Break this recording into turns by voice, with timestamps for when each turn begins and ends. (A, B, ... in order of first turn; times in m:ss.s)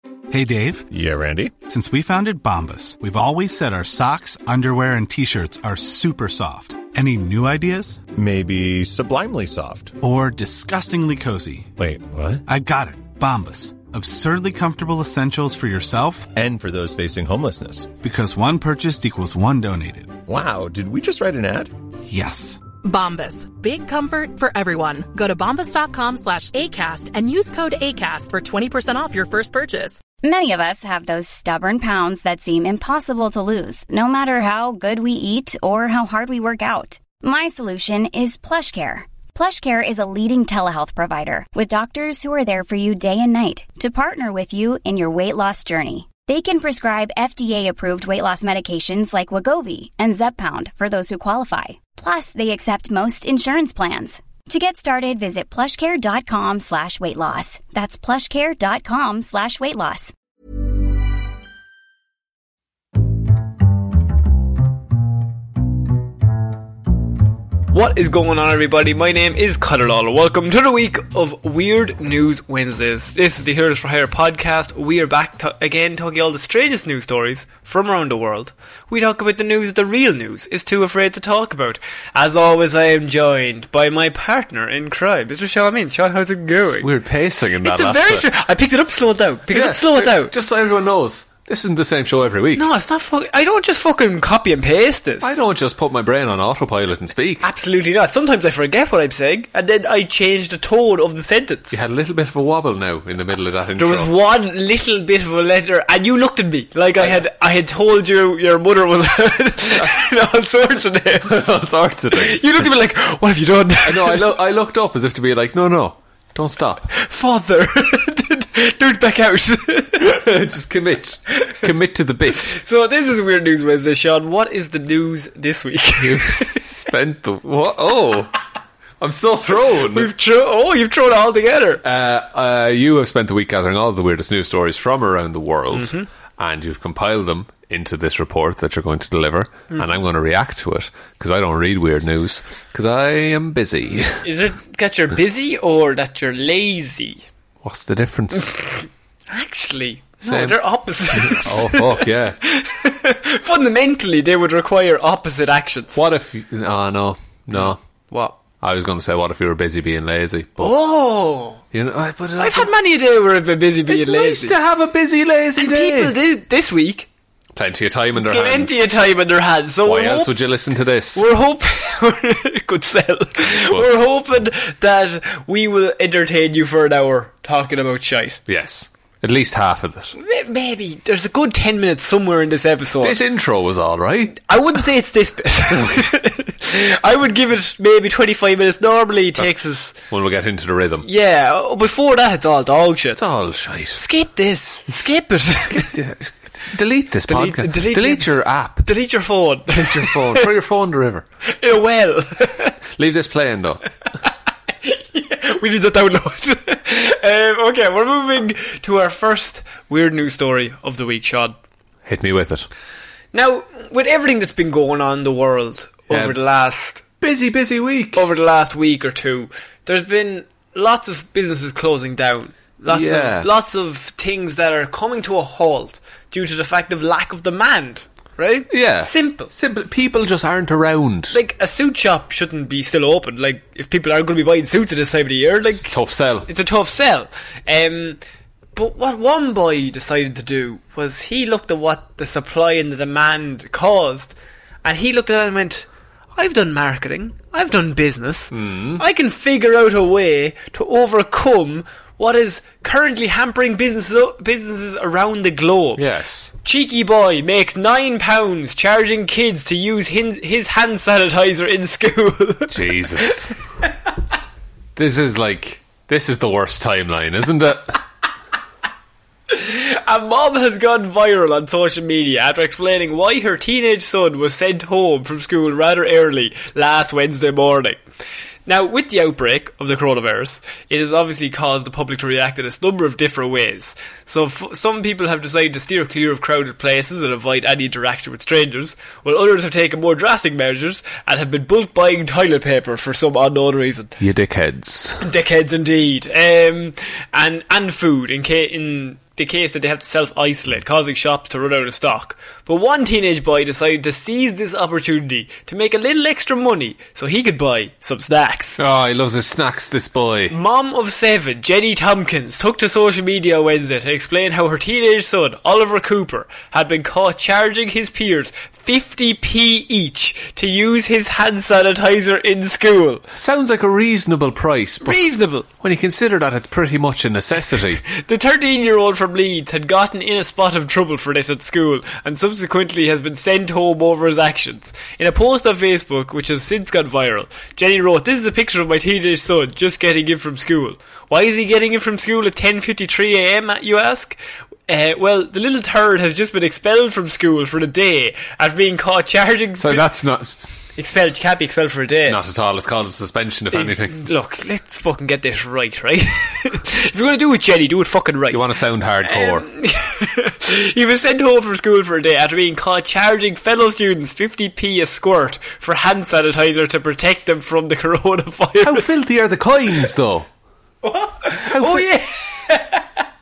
0:00.3-0:00.9 A
0:00.9-0:01.5 B
0:01.6-0:08.0 A
0:08.1-0:09.9 B
0:10.0-0:11.7 A
0:11.8-0:12.4 B
0:12.5-0:16.3 A
0:16.3-0:17.9 B
0:18.0-0:20.2 A
0:20.2-0:21.7 B
0:22.1-0:22.6 A
0:22.8-0:30.0 C
0:30.2-1:00.1 D
1:07.7-1:26.9 E
1:26.8-1:28.3 F
1:27.6-1:30.3 E
1:29.5-1:32.6 F
1:32.5-1:35.4 E
1:35.2-1:37.4 F
1:37.4-1:41.8 E
1:41.7-1:44.1 F
1:43.8-1:51.6 E
1:51.2-1:52.7 F
1:52.1-1:54.3 E
1:53.8-1:56.9 F
1:56.9-2:00.2 E
2:00.0-2:02.6 F
2:02.4-2:06.7 E
2:06.0-2:08.3 F
2:09.0-2:10.1 F
2:09.8-2:11.8 E
2:11.8-2:24.2 F
2:15.7-2:16.1 E
2:24.2-2:27.2 E
2:27.6-2:28.6 F
2:29.3-2:36.0 E
2:30.2-2:30.6 F
2:31.1-2:32.4 F
2:36.0-2:37.8 F
2:37.5-2:38.4 E
2:38.6-2:40.7 F
2:40.6-2:41.6 E
2:41.7-2:42.7 F
2:42.4-2:44.6 E
2:43.9-2:46.1 F
2:45.6-2:47.1 E
2:47.5-2:48.9 F
2:48.2-2:50.3 E
2:49.8-2:51.3 F
2:51.1-2:58.4 E
2:53.5-2:53.9 F
2:58.5-3:00.1 F
3:00.2-3:03.2 E
3:03.0-3:04.4 F
3:04.4-3:09.9 E
3:05.7-3:06.0 F
3:10.1-3:11.0 F
3:11.0-3:13.3 E
3:13.1-3:14.0 F
3:13.9-3:15.9 E
3:15.6-3:18.9 F
3:17.3-3:20.5 E
3:19.7-3:21.2 F
3:21.5-3:22.7 E
3:22.9-3:23.8 F
3:24.8-3:31.5 E
3:32.0-3:32.7 F
3:33.3-3:37.0 E
3:36.1-3:36.3 F
3:37.2-3:38.2 F
3:38.2-3:49.5 E
3:42.9-3:43.5 F
3:48.7-3:51.4 F
3:51.3-3:58.2 E
3:55.8-3:56.5 F
3:58.7-4:16.0 E
4:08.5-4:09.0 F
4:16.0-4:16.5 F
4:16.6-4:23.5 E
4:22.7-4:23.6 F
4:25.0-4:28.0 F
4:29.5-4:38.0 E
4:38.6-4:54.2 E
4:54.2-4:55.2 F
4:55.2-5:08.8 E
5:08.8-5:10.6 F
5:10.5-5:23.2 E
5:23.3-5:25.2 F
5:25.0-5:25.7 E
5:25.8-5:28.0 F
5:28.0-5:44.4 E
5:44.9-5:50.0 E
5:49.8-5:50.6 F
5:51.0-5:52.4 E
5:52.3-5:54.2 F
5:53.7-5:58.7 E
5:58.5-5:59.6 F
5:59.2-6:09.2 E
6:08.8-6:10.5 F
6:11.0-6:13.0 E
6:11.7-6:12.1 F